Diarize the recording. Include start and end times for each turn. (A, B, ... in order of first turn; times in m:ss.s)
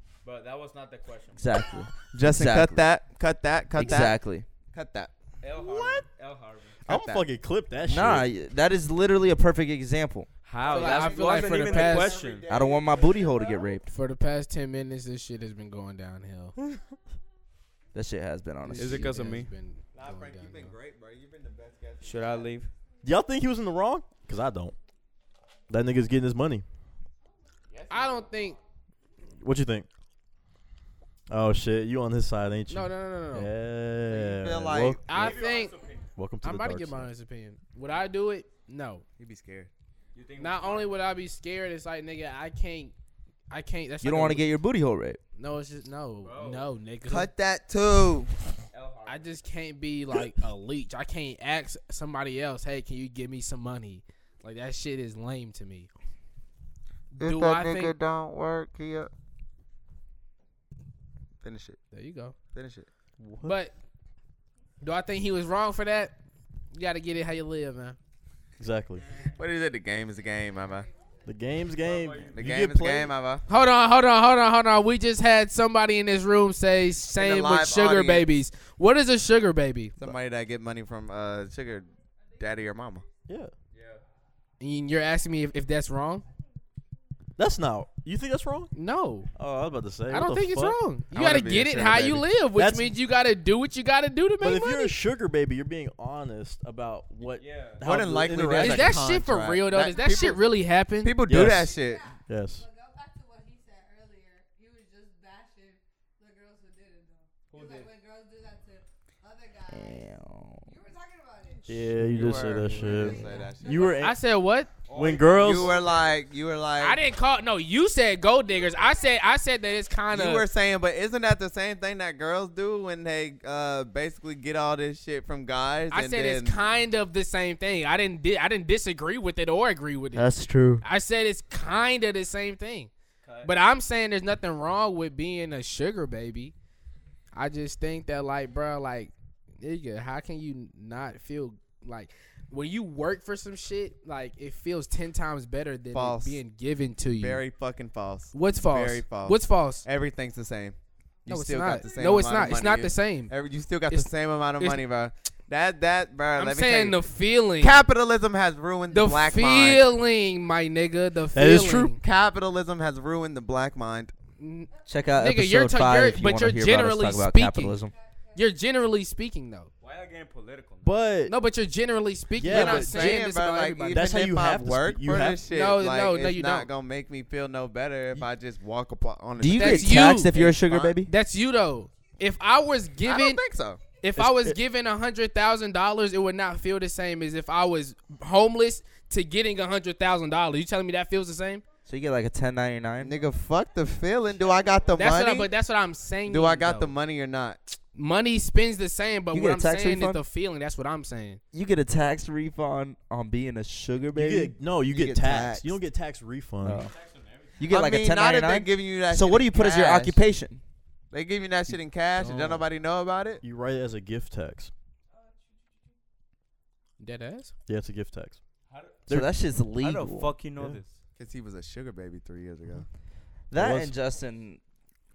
0:00.2-0:01.4 A
0:01.4-0:02.8 B
0:02.1-0:05.1 C
0:03.7-0:04.5 B
0:05.4-0:06.8 A
0:05.6-0:06.0 D
0:06.8-0:07.2 C
0:06.8-0:08.3 D
0:07.8-0:10.3 B
0:10.4-0:12.4 A
0:10.6-0:13.7 C
0:10.7-0:12.2 E
0:12.5-0:13.9 B
0:13.9-0:16.6 E
0:17.9-0:19.1 B
0:18.6-0:20.7 E
0:18.8-0:19.5 A
0:19.9-0:22.5 C
0:22.0-0:22.7 A
0:23.0-0:24.7 D
0:25.7-0:26.6 D
0:27.7-0:28.2 C
0:27.9-0:28.6 E
0:29.4-0:29.9 D
0:31.3-0:35.4 D
0:32.7-0:33.5 E
0:34.1-0:35.0 C
0:35.0-0:35.8 E
0:35.1-0:36.1 A
0:36.2-0:37.1 D
0:36.4-0:39.0 E
0:39.2-0:39.7 C
0:40.1-0:40.9 A
0:40.4-0:42.9 E
0:43.5-0:44.5 E
0:44.0-0:45.2 B
0:45.4-0:47.3 E
0:46.2-0:46.7 A
0:47.0-0:48.3 C
0:48.7-0:49.3 A
0:49.1-0:55.9 E
0:57.1-0:57.9 E
0:57.2-0:59.1 C
1:01.4-1:01.8 C
1:01.9-1:02.3 E
1:02.5-1:02.9 C
1:03.2-1:03.6 D
1:03.4-1:03.7 E
1:04.8-1:06.1 E
1:06.7-1:08.0 E
1:08.6-1:09.0 D
1:09.3-1:10.9 C
1:10.6-1:11.3 F
1:11.2-1:13.1 D
1:11.8-1:12.5 A
1:12.4-1:13.4 C
1:13.5-1:20.0 E
1:17.1-1:18.3 C
1:20.0-1:23.0 C
1:23.3-1:23.5 D
1:23.7-1:24.0 A
1:24.6-1:26.2 E
1:27.4-1:28.7 D
1:28.7-1:29.3 E
1:29.4-1:30.8 D
1:30.1-1:34.9 E
1:31.1-1:32.2 C
1:32.5-1:32.9 D
1:34.4-1:39.0 D
1:37.4-1:37.8 A
1:37.8-1:40.4 C
1:38.5-1:41.1 E
1:41.0-1:42.1 C
1:41.3-1:41.7 D
1:41.4-1:50.1 F
1:42.3-1:42.6 D
1:47.5-1:47.9 A
1:49.7-1:50.7 B
1:50.6-1:51.9 F
1:51.7-1:54.2 D
1:52.0-1:54.0 C
1:52.7-1:53.7 F
1:53.8-1:54.7 E
1:54.9-1:56.1 A
1:54.9-1:55.8 D
1:55.4-1:57.0 C
1:56.8-2:00.4 E
1:58.5-1:59.4 F
2:00.1-2:06.6 C
2:05.9-2:10.3 E
2:10.1-2:10.8 B
2:10.8-2:12.9 E
2:13.2-2:13.5 A
2:13.4-2:16.5 E
2:17.3-2:27.4 E
2:25.9-2:26.4 C
2:27.2-2:37.0 C
2:28.3-2:29.8 E
2:31.3-2:33.3 E
2:33.9-2:34.8 E
2:36.4-2:37.8 E
2:37.6-2:39.9 C
2:38.9-2:42.0 E
2:41.3-2:42.0 D
2:42.0-2:44.1 C
2:44.4-2:47.8 E
2:44.9-2:47.9 B
2:47.8-2:48.5 F
2:48.3-2:49.7 E
2:49.8-2:50.9 A
2:50.8-2:51.3 D
2:51.3-2:54.1 E
2:52.4-2:53.2 D
2:52.4-3:01.0 C
2:53.9-2:55.4 D
2:55.5-2:56.7 E
2:59.4-3:01.1 B
2:59.5-3:00.3 E
3:01.0-3:03.4 E
3:03.0-3:03.8 C
3:04.0-3:11.6 E
3:04.2-3:04.6 D
3:11.8-3:13.2 B
3:13.0-3:15.5 C
3:14.4-3:15.0 F
3:14.9-3:16.9 E
3:16.3-3:17.6 C
3:17.9-3:21.4 E
3:19.3-3:20.2 B
3:21.5-3:25.7 B
3:24.1-3:26.9 D
3:26.6-3:26.9 B
3:26.9-3:27.5 A
3:27.6-3:30.6 B
3:27.7-3:30.2 C
3:31.1-3:33.4 C
3:32.2-3:32.6 D
3:33.4-3:34.7 D
3:37.0-3:37.5 E
3:37.7-3:38.4 D
3:38.7-3:39.0 A
3:39.1-3:40.4 B
3:39.8-3:40.9 A
3:41.2-3:42.8 C
3:43.5-3:44.6 B
3:43.5-3:43.9 D